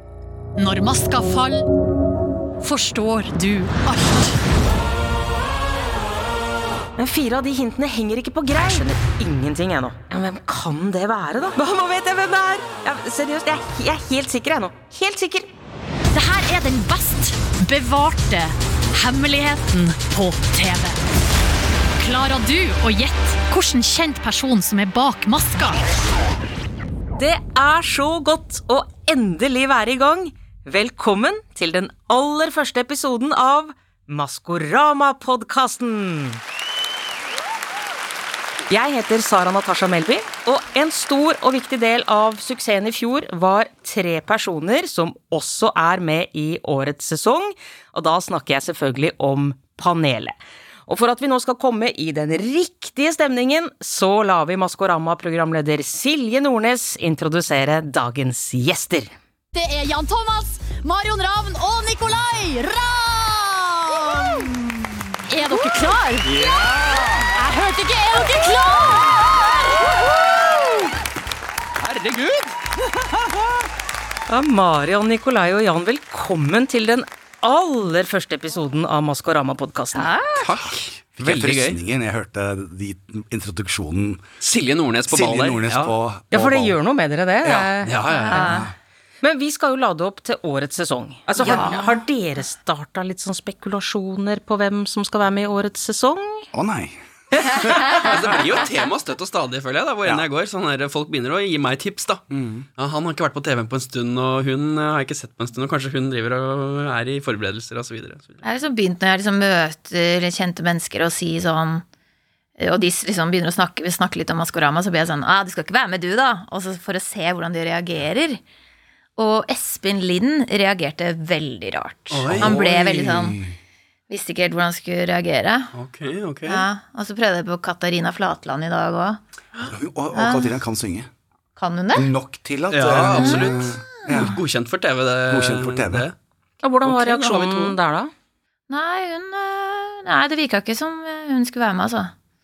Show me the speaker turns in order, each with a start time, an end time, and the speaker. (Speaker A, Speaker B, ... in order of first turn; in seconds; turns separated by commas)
Speaker A: 0.6-1.6, Speaker A: 2.6-4.2, Speaker B: 7.0-15.5, Speaker A: 16.1-20.9, Speaker A: 22.0-25.8, Speaker B: 27.1-36.4, Speaker B: 38.7-50.3, Speaker B: 50.9-59.1, Speaker A: 59.5-64.5, Speaker A: 65.3-66.3, Speaker C: 66.2-67.2, Speaker A: 67.4-69.0, Speaker C: 71.8-72.6, Speaker B: 74.3-80.1, Speaker D: 79.9-80.5, Speaker C: 80.4-81.8, Speaker E: 81.2-84.2, Speaker C: 84.4-85.9, Speaker E: 85.1-86.8, Speaker B: 86.3-88.5, Speaker E: 87.4-88.7, Speaker C: 87.8-88.6, Speaker D: 88.1-88.7, Speaker B: 89.2-96.5, Speaker D: 91.4-92.0, Speaker E: 96.5-97.8, Speaker C: 97.9-102.2, Speaker E: 102.3-102.7, Speaker C: 102.8-108.4, Speaker D: 108.4-111.8, Speaker D: 112.6-118.4, Speaker D: 119.2-123.4, Speaker C: 122.1-122.6, Speaker E: 122.3-123.5, Speaker D: 124.1-125.7, Speaker C: 125.7-126.6, Speaker D: 126.5-129.2, Speaker E: 129.6-131.1, Speaker D: 130.1-130.6, Speaker D: 131.6-132.1, Speaker E: 131.9-134.4, Speaker C: 132.7-136.1, Speaker D: 133.2-134.2, Speaker E: 135.3-136.1, Speaker B: 136.6-138.1, Speaker C: 136.8-137.8, Speaker D: 138.7-142.1